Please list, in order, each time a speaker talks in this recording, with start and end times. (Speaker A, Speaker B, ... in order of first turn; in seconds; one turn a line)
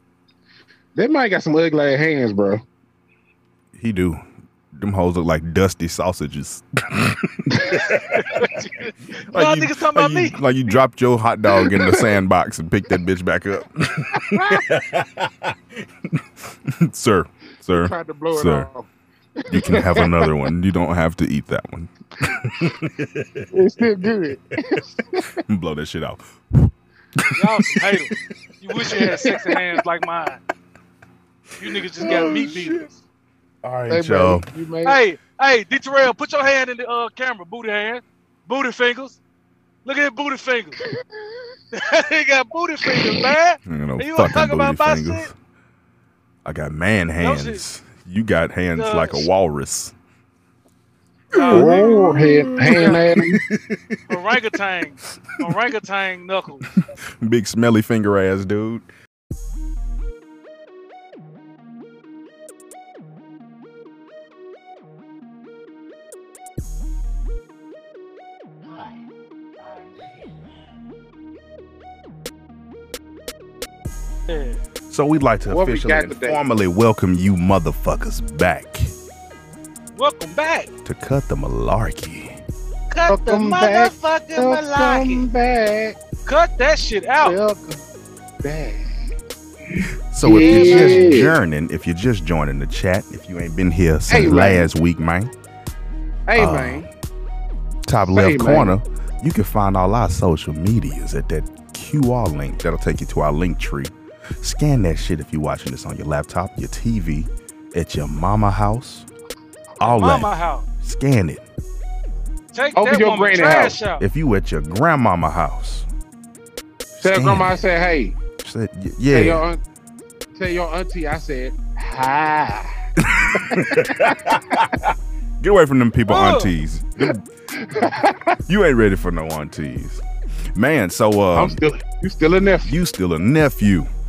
Speaker A: 0.9-2.6
Speaker B: 3.8-4.2
Speaker B: 4.8-8.6
Speaker C: 8.0-10.7
Speaker B: 9.2-15.5
Speaker A: 11.6-12.0
Speaker A: 14.2-14.6
Speaker B: 16.1-18.7
Speaker A: 17.7-18.9
Speaker A: 19.4-20.3
Speaker B: 19.5-23.5
Speaker A: 23.5-25.4
Speaker B: 25.4-28.2
Speaker C: 27.4-30.4
Speaker B: 28.8-29.2
Speaker A: 28.9-29.6
Speaker C: 31.6-33.0
Speaker B: 32.0-32.9
Speaker B: 33.6-34.5
Speaker A: 33.9-35.0
Speaker C: 34.9-39.2
Speaker C: 39.9-40.8
Speaker C: 41.7-45.3
Speaker A: 42.9-43.2
Speaker B: 43.7-45.3
Speaker B: 46.5-49.9
Speaker C: 47.2-47.6
Speaker C: 48.8-49.3
Speaker C: 51.3-53.0
Speaker B: 51.4-54.0
Speaker A: 51.5-53.3
Speaker C: 54.1-56.7
Speaker B: 56.8-58.9
Speaker C: 74.3-74.6
Speaker B: 74.9-78.9
Speaker A: 75.5-76.4
Speaker C: 80.0-80.7
Speaker B: 80.8-82.4
Speaker C: 82.9-85.2
Speaker A: 83.1-86.0
Speaker C: 86.3-87.4
Speaker A: 87.2-87.8
Speaker A: 88.4-88.9
Speaker B: 90.1-95.3
Speaker A: 90.2-91.4
Speaker C: 90.4-91.1
Speaker A: 94.1-94.7
Speaker A: 96.3-96.9
Speaker B: 96.4-96.9
Speaker B: 97.9-109.1
Speaker A: 98.0-98.8
Speaker B: 109.8-110.3
Speaker C: 109.8-110.7
Speaker B: 110.8-111.4
Speaker C: 112.5-114.0
Speaker A: 112.8-113.8
Speaker B: 114.0-115.9
Speaker B: 117.0-117.6
Speaker A: 117.0-118.2
Speaker B: 118.4-119.4
Speaker A: 119.1-119.6
Speaker A: 120.3-122.7
Speaker B: 123.0-124.8
Speaker A: 123.3-124.8
Speaker B: 125.4-127.2
Speaker C: 126.1-126.5
Speaker A: 127.5-128.4
Speaker B: 128.5-130.0
Speaker B: 130.6-131.6
Speaker A: 131.3-132.7
Speaker B: 132.7-133.9